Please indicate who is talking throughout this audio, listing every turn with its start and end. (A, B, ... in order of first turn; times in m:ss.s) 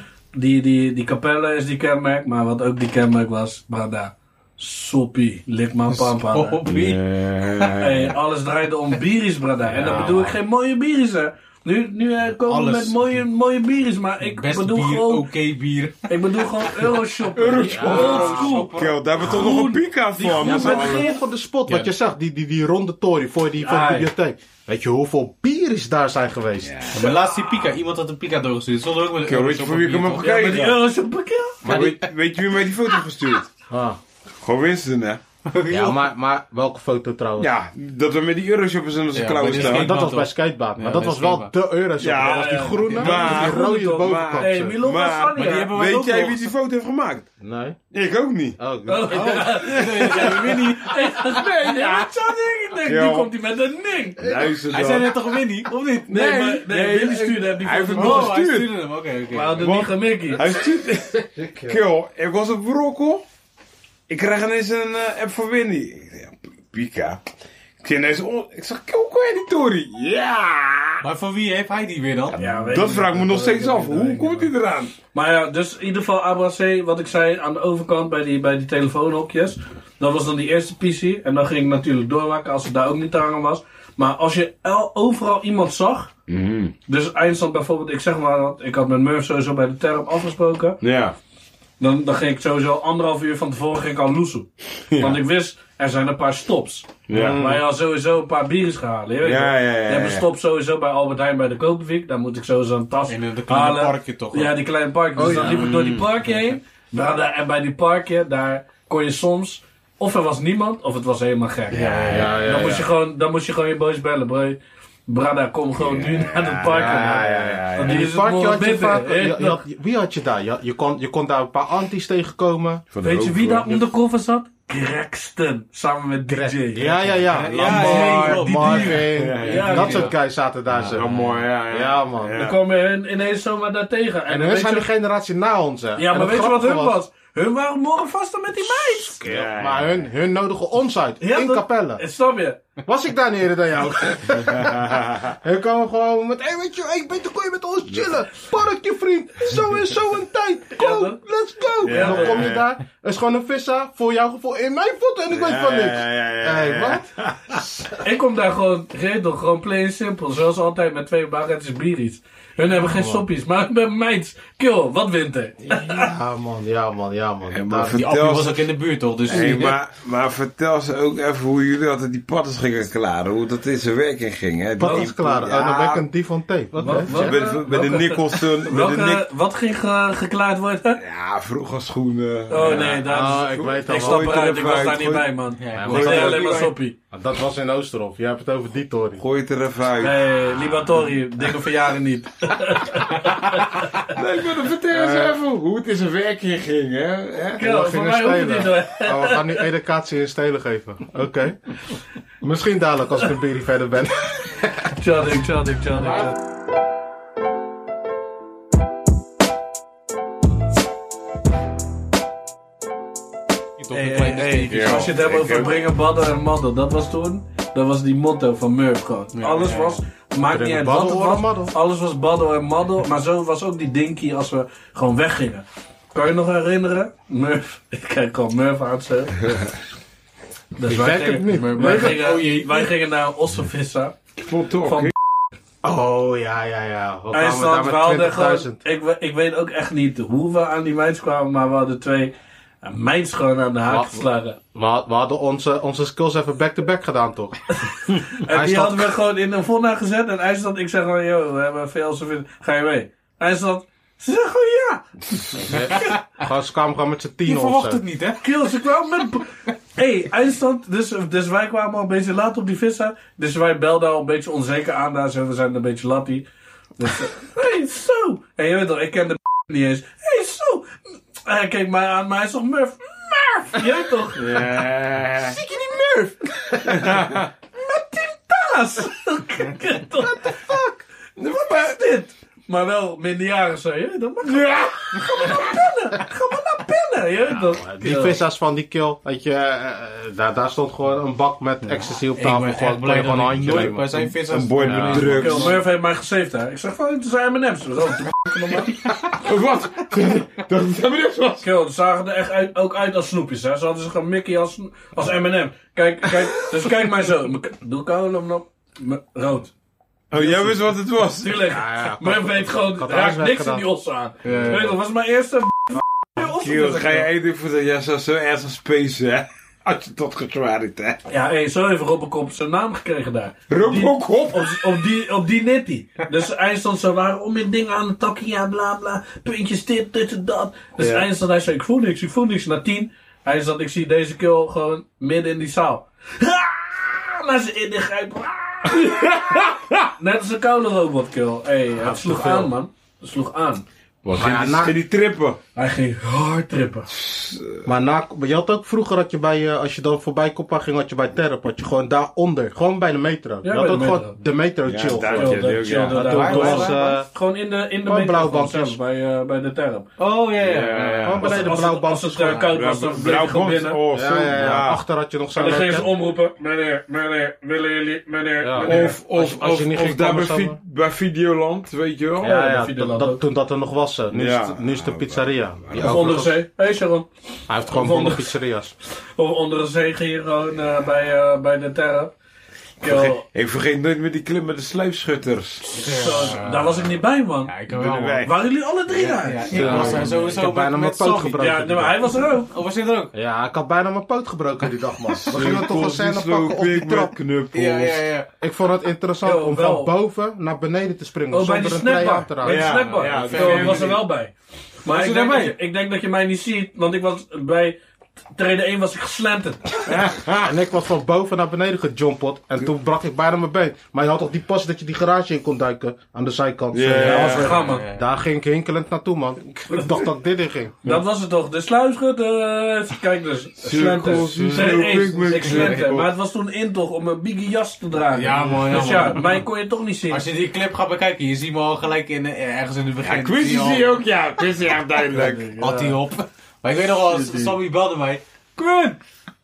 0:00.3-0:06.6 A
0:05.9-0:07.0 B
0:06.7-0:08.1 C
0:07.8-0:15.3 A
0:09.7-0:10.3 C
0:12.4-0:13.0 B
0:14.2-0:16.9 B
0:16.1-0:21.2 A
0:17.4-0:21.1 C
0:17.6-0:18.6 D
0:17.7-0:19.5 B
0:20.4-0:26.8 D
0:23.6-0:24.1 A
0:26.6-0:27.2 C
0:26.9-0:30.6 B
0:29.2-0:30.8 C
0:30.2-0:31.7 A
0:31.6-0:33.5 C
0:31.7-0:32.1 B
0:33.7-0:34.0 D
0:34.4-0:35.2 C
0:35.5-0:35.9 B
0:35.7-0:37.5 D
0:37.4-0:40.0 C
0:39.1-0:41.5 B
0:39.5-0:44.8 D
0:42.0-0:47.3 C
0:42.2-0:45.7 A
0:45.3-0:46.5 B
0:47.4-0:47.8 D
0:47.9-0:48.6 C
0:48.6-0:49.6 D
0:48.9-0:54.3 A
0:49.1-0:51.0 B
0:49.6-0:50.6 C
0:51.2-0:52.1 C
0:52.8-0:53.3 C
0:54.2-0:55.4 C
0:54.2-0:54.6 D
0:54.7-0:56.3 B
0:56.1-0:58.4 A
0:56.1-0:58.8 C
0:58.0-0:59.8 B
0:59.3-1:00.4 A
0:59.6-1:03.2 C
1:01.3-1:01.8 D
1:04.1-1:07.2 C
1:07.8-1:11.0 C
1:11.0-1:12.4 B
1:12.3-1:14.5 A
1:12.4-1:14.9 C
1:15.1-1:26.1 A
1:26.3-1:26.7 C
1:26.9-1:30.8 A
1:30.8-1:31.2 C
1:31.8-1:59.6 A
1:34.9-1:35.2 C
1:37.1-1:37.4 C
1:37.1-1:37.7 D
1:39.2-1:40.3 C
1:43.1-1:44.5 B
1:45.2-1:46.0 D
1:45.3-1:45.6 B
1:45.3-1:45.9 C
1:51.7-1:52.3 C
1:51.7-1:52.7 B
1:52.1-1:52.9 D
1:55.8-1:58.1 C
1:56.7-2:02.9 D
2:02.9-2:03.9 C
2:03.0-2:07.0 A
2:06.3-2:12.4 D
2:07.3-2:10.1 B
2:07.6-2:09.9 C
2:07.6-2:08.8 A
2:09.4-2:10.1 A
2:10.7-2:12.6 C
2:10.9-2:11.3 B
2:12.4-2:14.9 A
2:14.3-2:17.0 D
2:16.0-2:19.2 A
2:18.8-2:22.0 D
2:19.2-2:20.0 C
2:21.2-2:22.6 A
2:22.9-2:38.0 D
2:24.6-2:25.1 C
2:30.8-2:31.2 A
2:31.8-2:32.6 C
2:31.8-2:32.5 A
2:35.3-2:37.6 C
2:38.0-2:46.1 A
2:42.8-2:43.2 D
2:45.7-2:48.0 D
2:47.5-2:48.7 C
2:47.9-2:49.8 B
2:49.3-2:56.0 C
2:54.8-2:57.4 D
2:54.8-2:55.1 A
2:56.8-3:01.0 A
2:56.9-2:59.3 C
3:01.0-3:06.7 C
3:02.5-3:07.0 A
3:02.6-3:04.4 D
3:05.6-3:06.7 B
3:05.7-3:06.5 D
3:07.1-3:09.2 D
3:09.2-3:11.0 C
3:10.0-3:14.1 A
3:14.0-3:17.7 C
3:14.9-3:15.4 D
3:17.6-3:19.7 A
3:17.6-3:21.6 D
3:22.4-3:24.9 D
3:24.9-3:26.3 A
3:33.8-3:35.1 B
3:33.9-3:49.5 A
3:34.4-3:35.8 C
3:39.4-3:40.0 B
3:40.4-3:41.7 D
3:50.8-3:54.2 A
3:50.9-3:52.4 D
3:51.5-3:52.9 B
3:54.4-3:55.1 C
3:54.8-3:55.1 A
3:55.8-3:58.8 D
3:57.3-4:04.6 A
4:03.9-4:07.6 D
4:08.1-4:15.7 A
4:08.3-4:09.1 D
4:15.6-4:18.0 D
4:15.7-4:16.2 B
4:17.4-4:18.4 B
4:18.4-4:26.5 A
4:27.0-4:34.6 A
4:34.4-4:35.6 C
4:35.6-4:48.4 A
4:36.8-4:37.5 C
4:40.5-4:40.8 D
4:44.5-4:45.6 C
4:47.7-4:55.4 D
4:52.4-4:55.8 B
4:54.5-4:55.8 C
4:55.4-4:59.1 A
4:59.3-5:01.6 C
5:01.6-5:09.7 A
5:10.3-5:11.7 C
5:10.4-5:10.7 A
5:11.3-5:17.3 A
5:11.7-5:13.8 D
5:14.4-5:15.0 B
5:16.4-5:21.2 C
5:21.3-5:39.6 A
5:23.7-5:24.9 C
5:31.0-5:31.2 C
5:38.9-5:40.1 C
5:40.2-5:43.8 A
5:42.0-5:42.7 D
5:44.2-5:45.6 C
5:44.4-5:45.0 D
5:45.8-5:47.1 A
5:47.1-5:47.9 C
5:47.8-5:57.3 D
5:53.6-5:54.4 A
5:54.9-5:56.5 C
5:55.3-6:00.1 A
5:56.1-5:57.0 B
5:58.0-5:59.0 D
6:00.2-6:01.7 B
6:00.6-6:01.7 C
6:01.2-6:02.7 D
6:01.4-6:04.0 A
6:02.7-6:05.0 C
6:04.1-6:06.1 D
6:05.6-6:09.2 A
6:08.6-6:10.8 D
6:08.8-6:12.6 C
6:12.4-6:16.6 D
6:12.5-6:13.4 A
6:14.3-6:16.3 C
6:15.9-6:17.3 A
6:17.7-6:18.9 D
6:17.9-6:18.6 A
6:19.4-6:22.3 A
6:23.0-6:23.4 A
6:23.0-6:26.5 C
6:25.9-6:27.7 A
6:25.9-6:28.5 B
6:27.9-6:28.5 C
6:28.4-6:30.4 A
6:29.1-6:31.6 B
6:29.7-6:30.4 C
6:29.7-6:32.2 D
6:31.6-6:32.7 A
6:32.6-6:33.3 B
6:33.3-6:37.3 D
6:35.4-6:38.3 C
6:37.7-6:38.5 B
6:38.6-6:42.9 D
6:39.4-6:40.1 A
6:41.5-6:44.5 A
6:42.6-6:44.2 C
6:42.9-6:44.2 B
6:45.0-6:45.8 B
6:45.0-6:48.0 A
6:48.5-6:50.0 A
6:50.1-6:50.7 C
6:50.6-7:01.0 D
6:56.9-6:57.7 C
6:57.2-6:58.1 A
6:57.5-6:58.2 B
7:01.0-7:10.4 A
7:03.8-7:06.3 C
7:04.3-7:05.1 D
7:04.5-7:04.8 B
7:05.4-7:06.1 B
7:08.3-7:09.7 B
7:08.5-7:09.3 C
7:10.3-7:14.2 B
7:13.2-7:15.7 C
7:15.3-7:16.2 A
7:15.8-7:19.2 B
7:17.2-7:17.8 A